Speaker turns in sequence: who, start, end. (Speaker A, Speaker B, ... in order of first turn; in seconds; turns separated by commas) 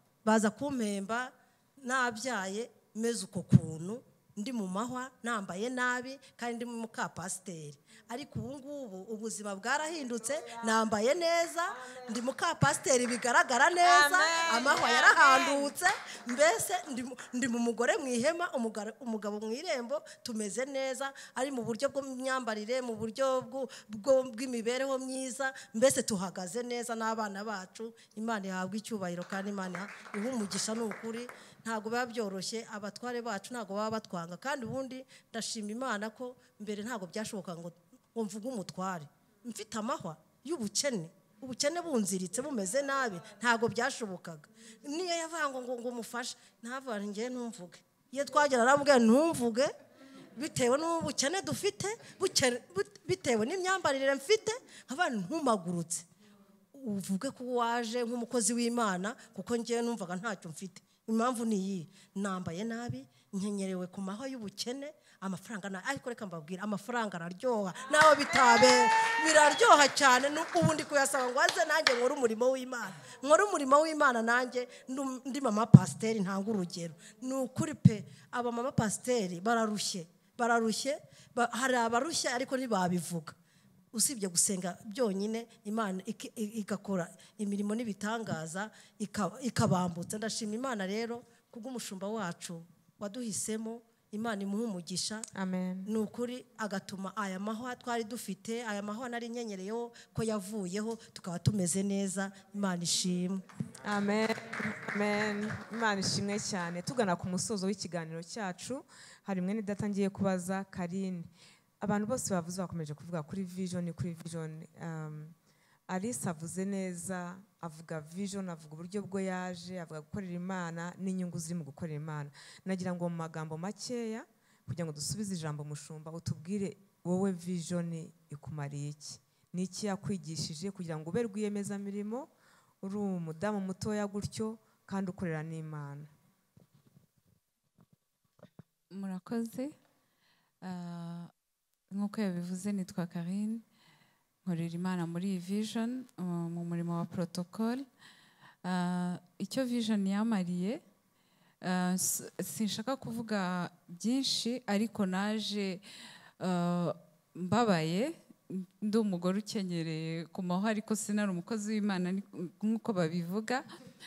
Speaker A: 0.2-49.7, Speaker B: 13.8-15.7, Speaker A: 50.4-56.1, Speaker A: 56.7-83.3, Speaker A: 83.9-95.2, Speaker B: 95.3-95.9, Speaker A: 95.9-103.4, Speaker B: 103.8-115.3, Speaker B: 115.9-132.3, Speaker B: 132.8-136.1, Speaker C: 138.9-139.7, Speaker C: 140.6-141.3, Speaker C: 141.9-143.6, Speaker C: 144.4-147.8, Speaker C: 148.6-150.8, Speaker C: 151.6-155.8, Speaker C: 156.4-163.6